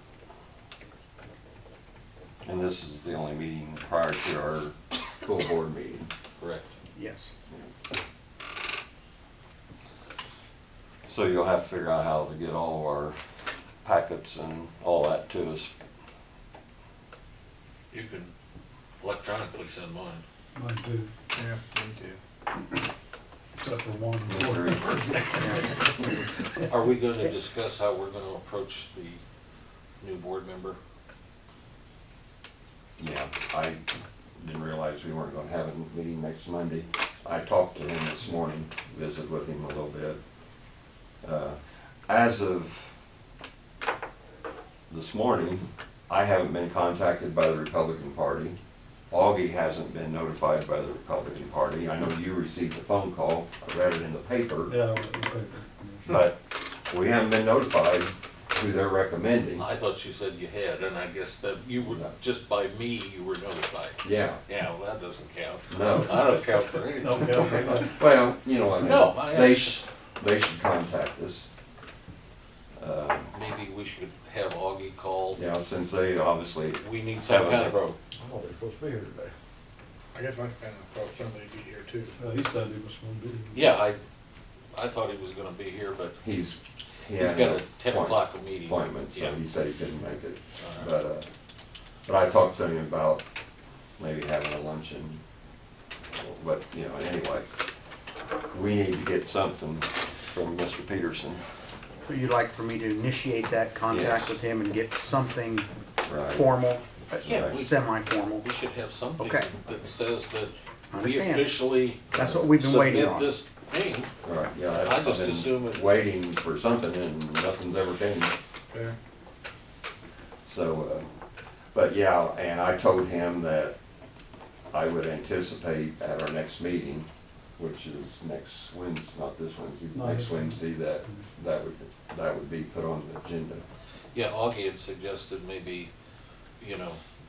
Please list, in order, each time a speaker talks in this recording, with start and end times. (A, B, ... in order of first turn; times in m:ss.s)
0:02.4-0:06.1 A
0:06.4-0:06.7 B
0:07.0-0:07.3 C
0:11.1-0:13.2 A
0:13.8-0:15.7 A
0:17.9-0:18.3 B
0:19.0-0:20.2 B
0:20.6-0:21.1 D
0:21.4-0:22.2 E
0:23.6-0:25.6 D
0:24.3-0:25.3 A
0:26.7-0:29.2 B
0:30.0-0:30.8 B
0:33.0-0:33.8 A
0:34.4-0:40.2 A
0:41.2-0:42.9 A
0:44.9-0:48.6 A
0:49.1-0:54.8 A
0:54.7-0:56.2 D
0:56.1-0:59.7 A
0:59.6-1:07.9 B
1:01.8-1:02.1 A
1:04.0-1:04.4 A
1:05.7-1:06.2 A
1:06.2-1:08.0 D
1:07.6-1:11.5 A
1:08.8-1:09.8 B
1:12.8-1:13.3 A
1:13.3-1:15.4 B
1:15.4-1:19.3 A
1:16.8-1:18.0 B
1:20.1-1:22.2 E
1:22.2-1:23.7 D
1:23.5-1:24.0 B
1:24.7-1:26.2 B
1:26.2-1:31.3 A
1:27.2-1:29.4 B
1:30.6-1:30.9 B
1:32.1-1:33.2 A
1:34.0-1:35.2 A
1:36.2-1:37.5 A
1:38.5-1:41.4 A
1:42.0-1:45.7 C
1:43.9-1:44.4 A
1:46.0-1:46.5 A
1:46.2-1:48.5 C
1:47.2-1:47.6 A
1:47.2-1:47.8 B
1:48.4-1:54.1 B
1:49.2-1:49.5 C
1:50.9-1:53.3 C
1:54.2-1:58.3 A
1:54.7-1:55.8 B
1:58.7-1:59.0 E
2:00.4-2:01.1 A
2:01.7-2:03.8 A
2:04.7-2:07.1 A
2:07.6-2:13.6 A
2:09.9-2:11.2 D
2:14.1-2:15.9 B
2:16.6-2:17.0 B